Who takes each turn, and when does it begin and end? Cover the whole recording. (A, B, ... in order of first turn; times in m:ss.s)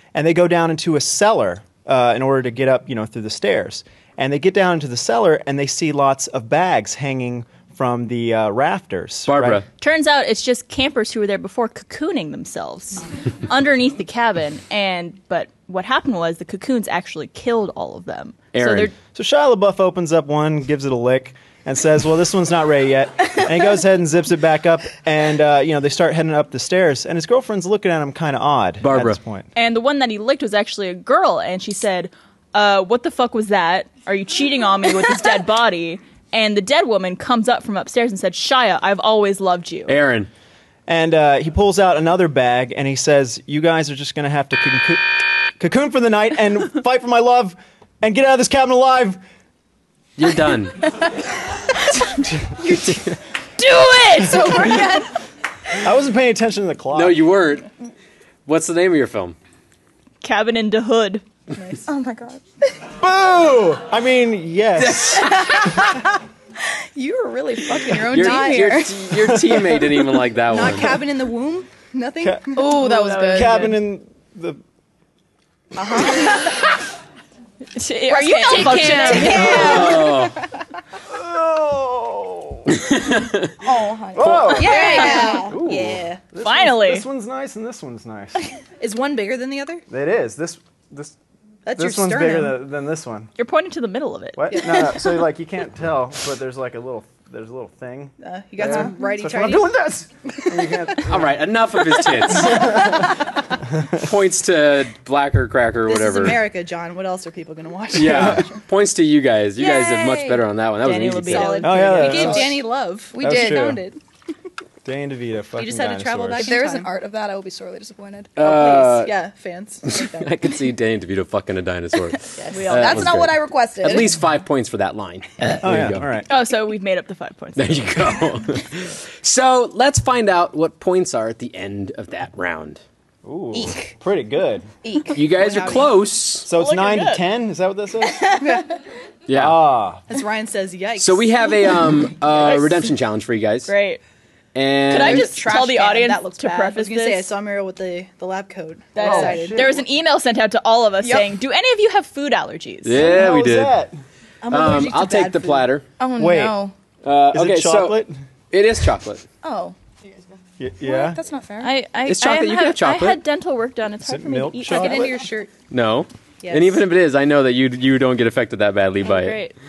0:00.2-0:09.6 A
0:09.3-0:09.7 B
0:09.8-0:19.0 C
0:18.5-0:18.9 B
0:19.1-0:29.5 A
0:28.8-0:29.2 B
0:29.6-0:40.0 C
0:39.9-0:40.3 B
0:40.9-0:49.2 A
0:50.2-0:51.0 B
0:53.6-0:54.9 C
0:54.3-0:55.1 D
0:54.5-0:54.8 E
0:55.8-0:57.2 A
0:56.9-0:57.7 B
0:58.5-0:59.4 B
1:00.2-1:01.2 C
1:01.5-1:01.8 D
1:01.9-1:02.4 E
1:03.0-1:05.4 A
1:04.8-1:05.8 B
1:05.4-1:05.9 E
1:07.0-1:09.3 E
1:08.0-1:11.0 B
1:08.2-1:08.5 D
1:09.2-1:10.0 A
1:10.5-1:12.8 D
1:12.2-1:12.6 A
1:12.5-1:13.7 E
1:12.7-1:13.8 C
1:13.3-1:14.6 A
1:15.8-1:16.6 D
1:16.0-1:16.4 E
1:17.8-1:19.9 C
1:18.1-1:20.1 E
1:18.4-1:20.3 D
1:19.2-1:20.4 B
1:21.1-1:22.7 A
1:22.7-1:23.5 B
1:23.6-1:25.6 E
1:24.1-1:28.4 A
1:24.2-1:24.6 B
1:24.5-1:26.2 D
1:24.7-1:25.4 C
1:26.4-1:27.1 C
1:28.8-1:29.8 D
1:29.9-1:31.2 A
1:31.7-1:32.6 D
1:31.8-1:33.3 A
1:33.4-1:34.7 C
1:34.4-1:41.4 A
1:34.5-1:34.9 D
1:38.2-1:39.7 D
1:41.0-1:43.0 B
1:42.3-1:43.0 A
1:43.9-1:46.4 B
1:45.9-1:48.6 D
1:47.9-1:51.7 B
1:48.0-1:48.5 A
1:49.6-1:50.4 E
1:50.8-1:52.4 C
1:51.2-1:54.0 D
1:51.6-1:52.6 A
1:52.2-1:52.4 E
1:53.1-1:53.8 E
1:53.2-1:53.8 A
1:54.8-1:56.5 A
1:55.6-1:56.9 D
1:56.4-1:58.4 E
1:58.4-1:59.2 B
1:58.4-2:00.4 D
1:59.9-2:06.1 B
2:02.4-2:02.8 D
2:02.5-2:03.1 C
2:02.7-2:04.1 E
2:05.6-2:06.3 A
2:06.3-2:08.2 C
2:07.6-2:12.8 B
2:13.2-2:14.7 A
2:13.5-2:13.9 E
2:14.8-2:15.2 E
2:15.2-2:16.5 B
2:15.3-2:16.0 D
2:16.4-2:18.4 A
2:16.5-2:17.3 C
2:18.2-2:18.6 E
2:18.4-2:18.7 D
2:19.3-2:19.6 B
2:19.3-2:20.0 A
2:20.1-2:21.5 D
2:21.0-2:23.7 B
2:23.7-2:24.0 C
2:24.6-2:25.4 B
2:24.9-2:27.3 C
2:25.0-2:29.8 D
2:25.1-2:26.3 E
2:29.0-2:33.0 C
2:29.0-2:29.8 A
2:31.0-2:31.3 E
2:32.8-2:33.8 B
2:33.0-2:34.0 A
2:34.4-2:35.7 D
2:34.5-2:35.8 B
2:36.0-2:36.7 E
2:36.2-2:36.6 A
2:37.0-2:39.2 B
2:37.3-2:38.2 A
2:39.4-2:40.2 E
2:40.6-2:41.2 A
2:40.8-2:41.7 E
2:41.6-2:45.2 C
2:42.1-2:43.2 B
2:44.0-2:45.2 A
2:44.7-2:45.5 D
2:45.7-2:49.5 B
2:46.4-2:46.8 D
2:49.0-2:49.5 C